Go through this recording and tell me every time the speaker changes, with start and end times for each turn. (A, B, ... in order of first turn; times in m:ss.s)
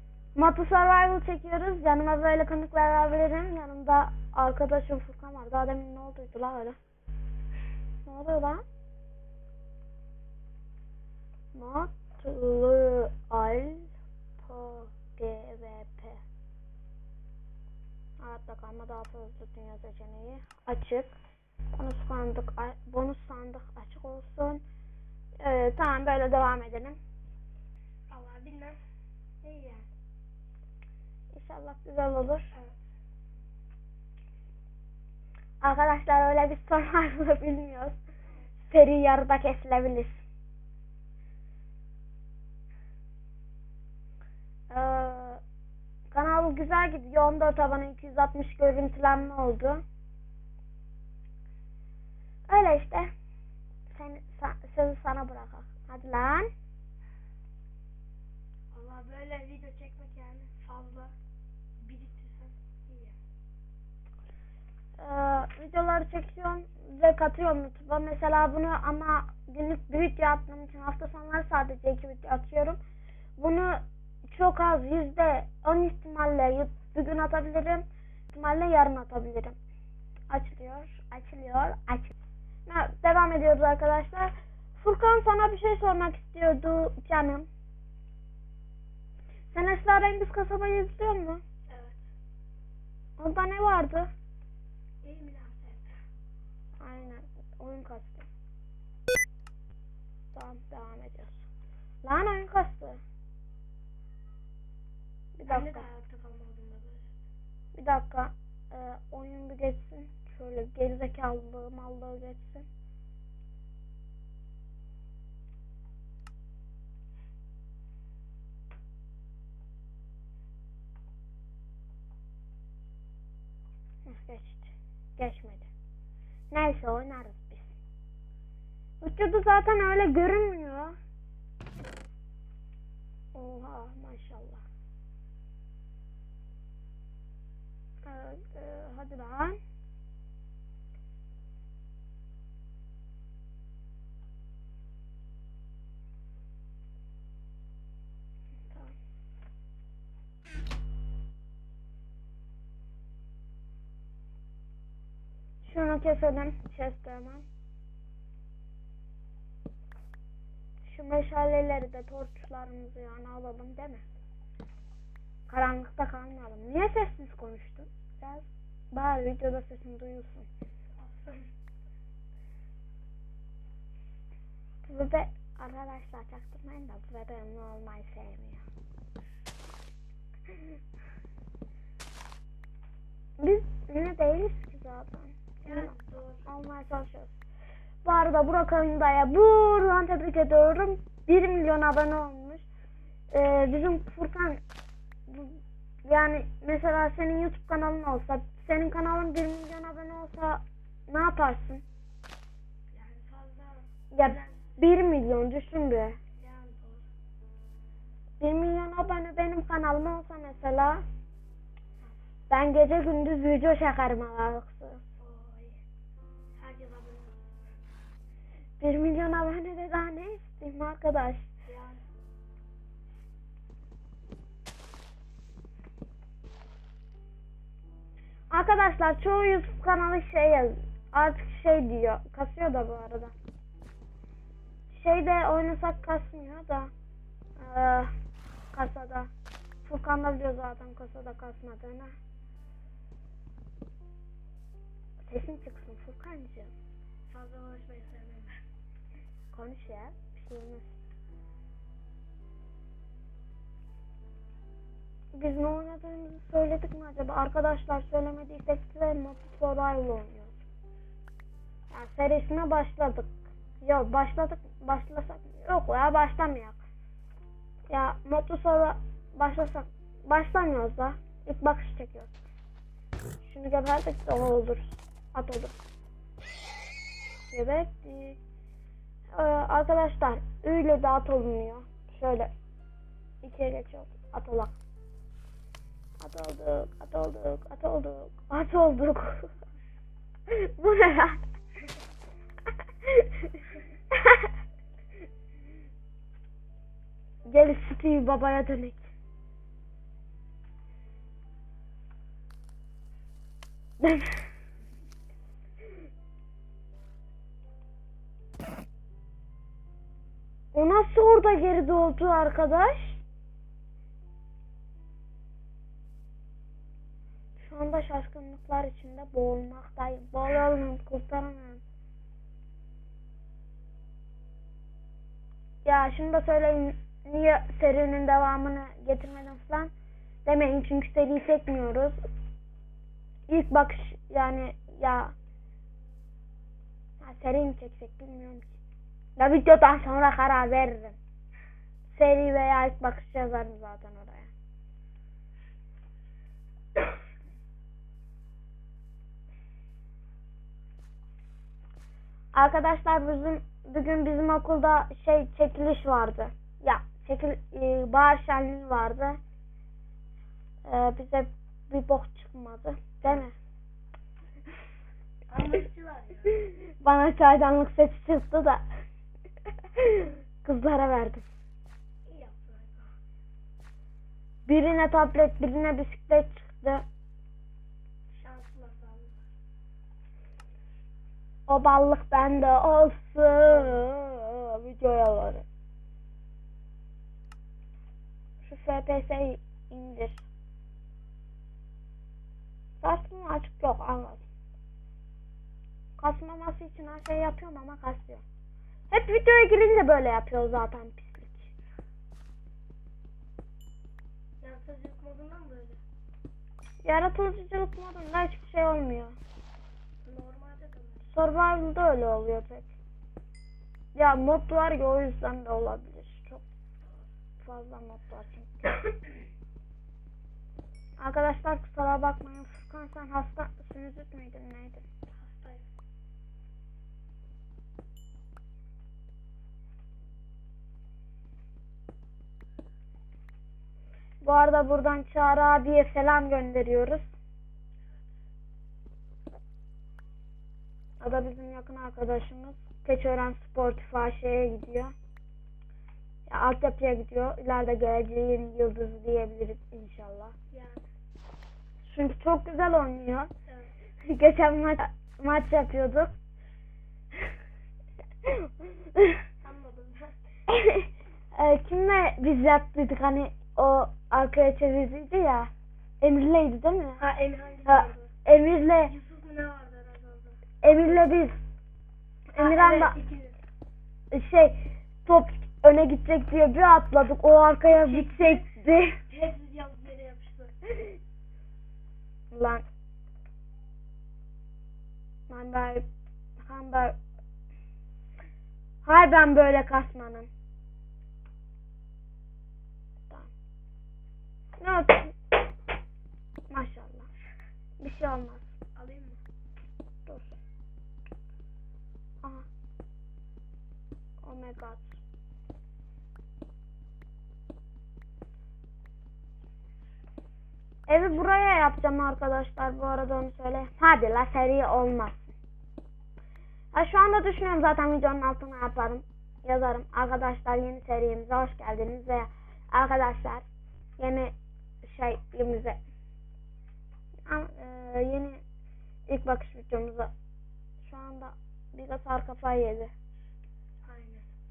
0:00.3-0:06.8 A
0:08.0-0:08.6 A
0:11.5-0:16.2 A
0:18.2-0:21.2 A
0:21.7-0:24.6 A
0:25.4-0:27.0 A
0:28.1-0:28.8 B
0:29.4-0:29.9 B
0:31.3-0:32.5 A
0:32.5-0:32.8 B
0:35.6-0:38.0 A
0:38.7-0:40.2 A
0:44.7-0:45.4 A
0:46.1-0:49.8 A
0:52.5-0:53.1 A
0:53.9-0:56.5 A
0:58.7-1:01.1 B
1:01.8-1:03.1 B
1:05.0-1:12.8 A
1:13.4-1:19.6 A
1:20.3-1:22.1 A
1:22.7-1:27.5 A
1:29.5-1:31.4 A
1:31.7-1:32.0 B
1:33.2-1:34.1 A
1:35.0-1:36.0 B
1:36.8-1:38.3 A
1:40.3-1:41.5 A
1:42.0-1:43.0 A
1:45.4-1:45.9 A
1:45.5-1:47.1 B
1:47.7-1:52.7 A
2:04.0-2:05.7 A
2:06.5-2:07.8 A
2:09.0-2:11.0 A
2:13.3-2:14.6 A
2:18.0-2:19.6 A
2:28.7-2:28.9 A
2:35.6-2:37.4 A
2:40.8-2:44.0 A
2:45.5-2:50.5 A
2:51.0-2:51.5 B
2:54.8-2:58.6 A
3:03.4-3:05.9 A
3:05.6-3:06.5 B
3:06.4-3:07.4 A
3:08.0-3:12.7 A
3:13.3-3:14.6 A
3:15.3-3:21.8 A
3:22.9-3:24.8 B
3:24.1-3:26.2 A
3:26.4-3:27.1 B
3:28.4-3:31.0 A
3:32.5-3:35.1 A
3:35.2-3:35.8 B
3:36.5-3:37.6 B
3:38.8-3:41.5 A
3:41.6-3:42.0 B
3:48.5-3:53.3 A
3:54.9-3:56.9 A
3:57.6-3:58.1 A
3:58.7-3:59.3 A
3:59.8-4:02.1 A
4:05.2-4:06.7 A
4:07.3-4:08.6 B
4:09.5-4:10.9 A
4:15.3-4:20.6 A
4:21.9-4:26.8 A
4:27.9-4:32.3 A
4:33.4-4:35.7 A
4:37.5-4:38.4 A
4:39.3-4:42.5 A
4:43.4-4:44.7 A
4:46.2-4:49.5 A
4:50.5-4:51.4 A
4:57.5-4:59.1 A
5:04.0-5:04.4 A
5:10.7-5:13.2 A
5:17.6-5:21.8 A
5:25.8-5:29.9 A
5:30.4-5:32.2 A
5:33.5-5:35.3 A
5:37.2-5:38.8 A
5:39.4-5:41.2 A
5:42.1-5:44.5 A
5:52.5-5:59.4 A
6:00.8-6:03.5 A
6:05.5-6:06.7 B
6:06.6-6:08.8 A
6:10.0-6:11.5 A
6:12.2-6:13.1 B
6:14.7-6:17.0 A
6:18.3-6:19.5 B
6:21.7-6:25.6 A
6:28.6-6:30.5 A
6:33.0-6:34.4 A
6:36.2-6:38.4 A
6:39.1-6:41.7 A
6:44.6-6:46.0 B
6:47.0-6:49.4 A
6:50.2-6:51.3 B
6:51.3-6:52.9 A
6:54.1-6:56.6 A
6:57.6-6:58.9 A
7:01.2-7:05.0 A
7:05.3-7:05.8 B
7:14.4-7:17.3 A
7:21.2-7:25.1 A
7:26.5-7:30.5 A
7:30.7-7:31.0 B
7:32.0-7:33.5 A
7:34.2-7:36.3 A
7:39.6-7:40.4 B
7:40.7-7:47.2 A
7:47.2-7:48.3 B
7:47.8-7:49.1 A
7:49.0-7:50.6 B
7:50.8-7:51.6 A
7:52.5-7:53.2 A
7:52.5-7:53.6 B
7:54.3-7:59.2 A
7:57.8-7:58.7 B
7:59.3-8:00.8 B
8:02.5-8:02.8 A
8:05.5-8:06.0 A
8:06.6-8:07.2 A
8:09.0-8:10.5 A
8:14.8-8:15.3 A
8:16.7-8:17.3 A
8:18.0-8:18.7 A
8:19.0-8:19.4 B
8:20.2-8:20.5 A
8:24.4-8:25.2 A
8:31.1-8:35.5 A
8:36.9-8:43.6 A
8:44.2-8:46.0 A
8:47.4-8:48.6 A
8:49.3-8:50.3 A
8:51.0-8:53.1 A
8:54.0-8:54.5 B